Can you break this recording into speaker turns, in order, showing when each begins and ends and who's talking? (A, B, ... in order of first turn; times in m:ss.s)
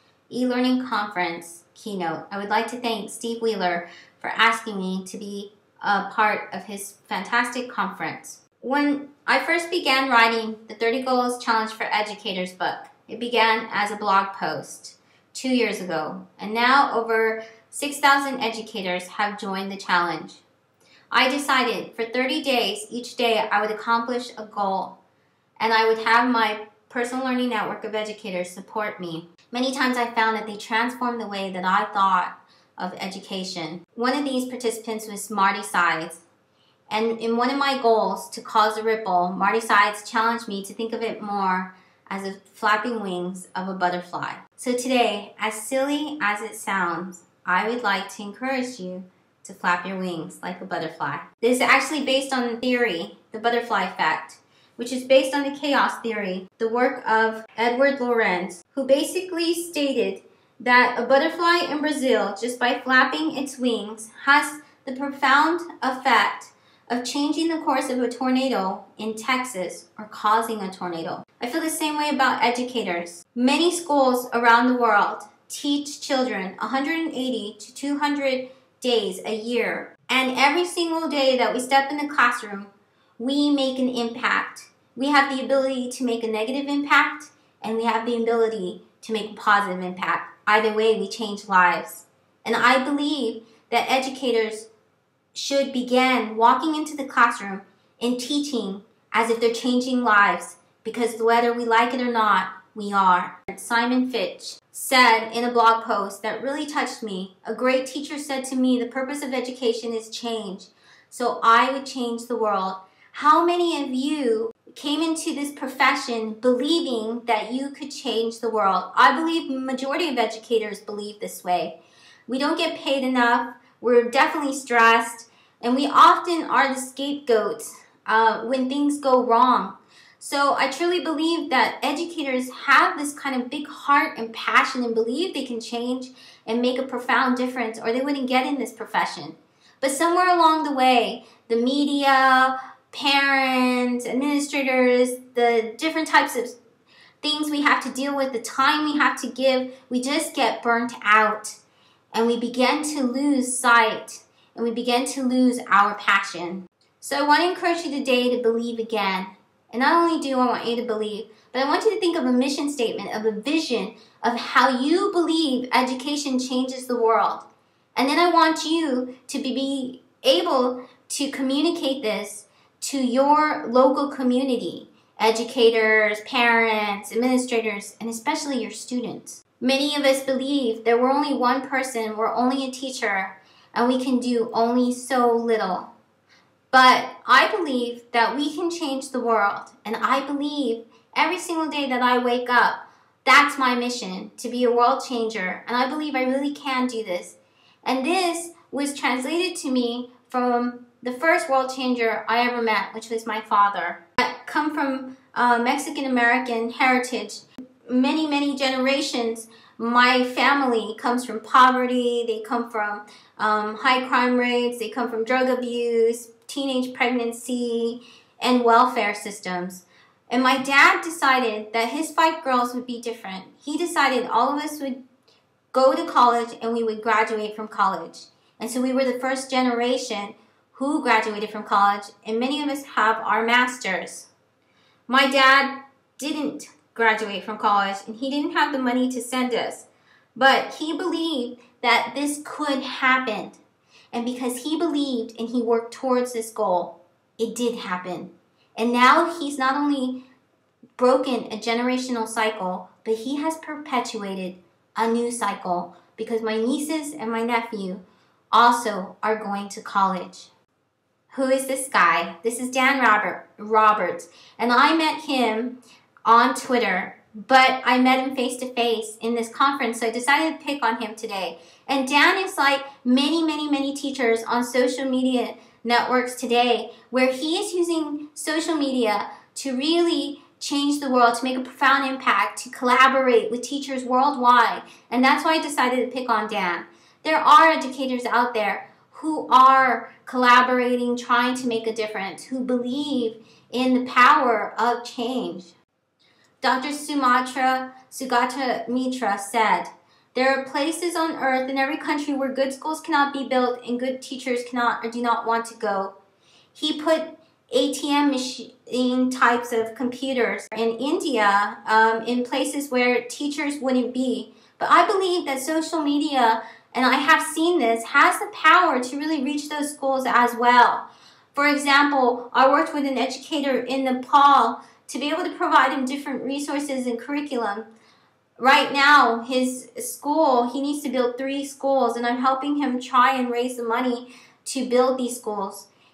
0:00.3-0:20.4 A
0:21.1-0:25.0 A
0:25.6-0:36.2 A
0:36.9-1:34.7 A
1:35.3-2:26.6 A
2:27.2-2:31.6 A
2:32.1-3:05.9 A
3:06.7-3:45.0 A
3:45.7-3:54.3 A
3:55.1-4:03.6 A
4:04.1-4:10.2 A
4:11.0-4:20.5 A
4:21.3-4:55.8 A
4:56.6-5:06.1 A
5:06.7-5:27.9 A
5:28.6-5:35.9 A